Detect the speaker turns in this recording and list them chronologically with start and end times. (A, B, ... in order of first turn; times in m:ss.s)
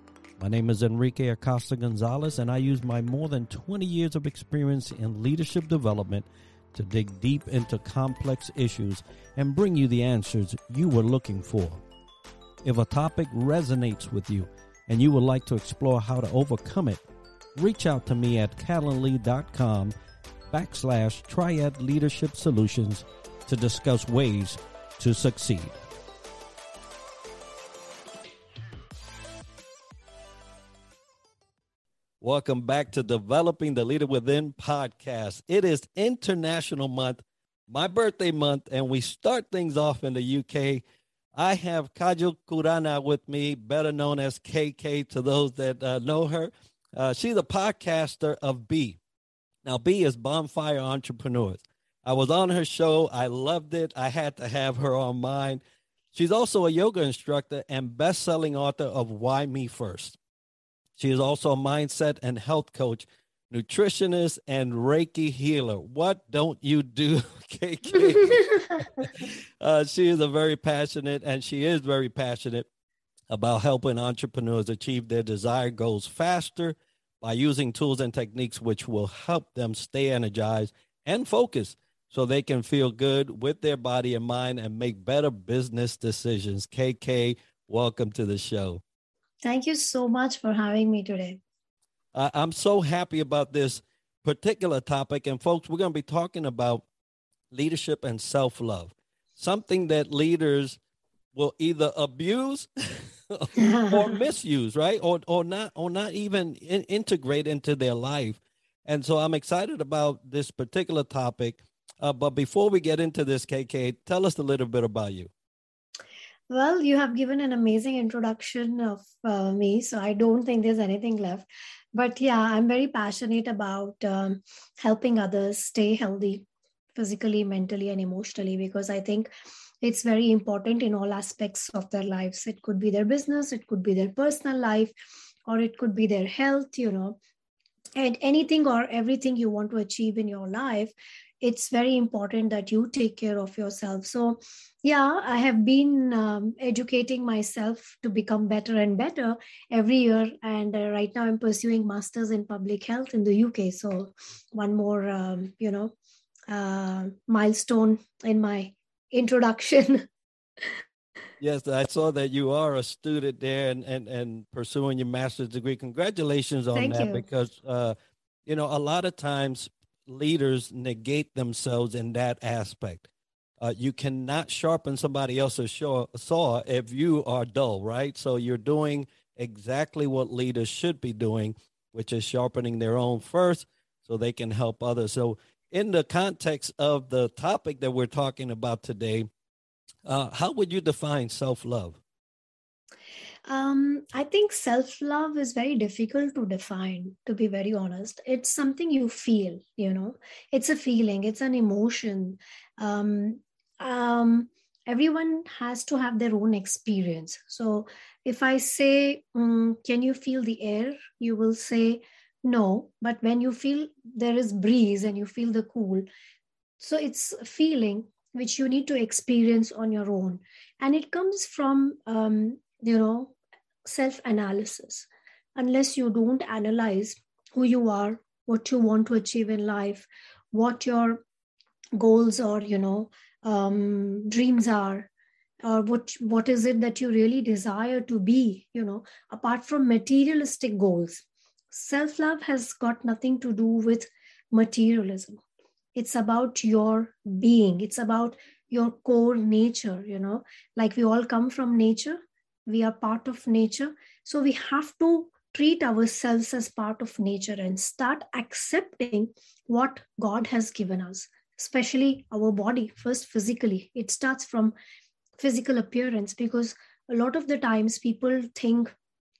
0:00.4-0:11.8 A
0:12.6-0:17.0 A
0:17.5-0:19.9 A
0:20.5-0:25.8 A
0:32.2-0:40.8 A
0:41.3-0:49.0 A
0:49.6-0:55.6 A
0:56.1-1:00.2 A
1:01.0-1:12.7 A
1:08.0-1:08.6 B
1:13.3-1:28.8 A
1:29.4-1:31.4 B
1:32.1-1:36.8 A
1:37.5-1:40.8 A
1:41.3-1:42.7 A
1:43.3-1:55.3 A
1:43.6-1:44.2 B
1:56.5-2:09.3 B
2:09.8-2:14.9 B
2:15.4-2:17.2 B
2:18.0-2:35.9 B
2:36.5-2:40.0 B
2:41.4-2:53.1 A
2:46.7-2:47.2 B
2:53.6-3:09.3 A
3:10.0-3:12.0 A
3:13.5-3:36.0 B
3:36.8-3:51.2 B
3:52.0-3:55.1 B
3:55.6-4:05.4 B
4:05.9-4:24.7 B
4:25.4-4:28.9 B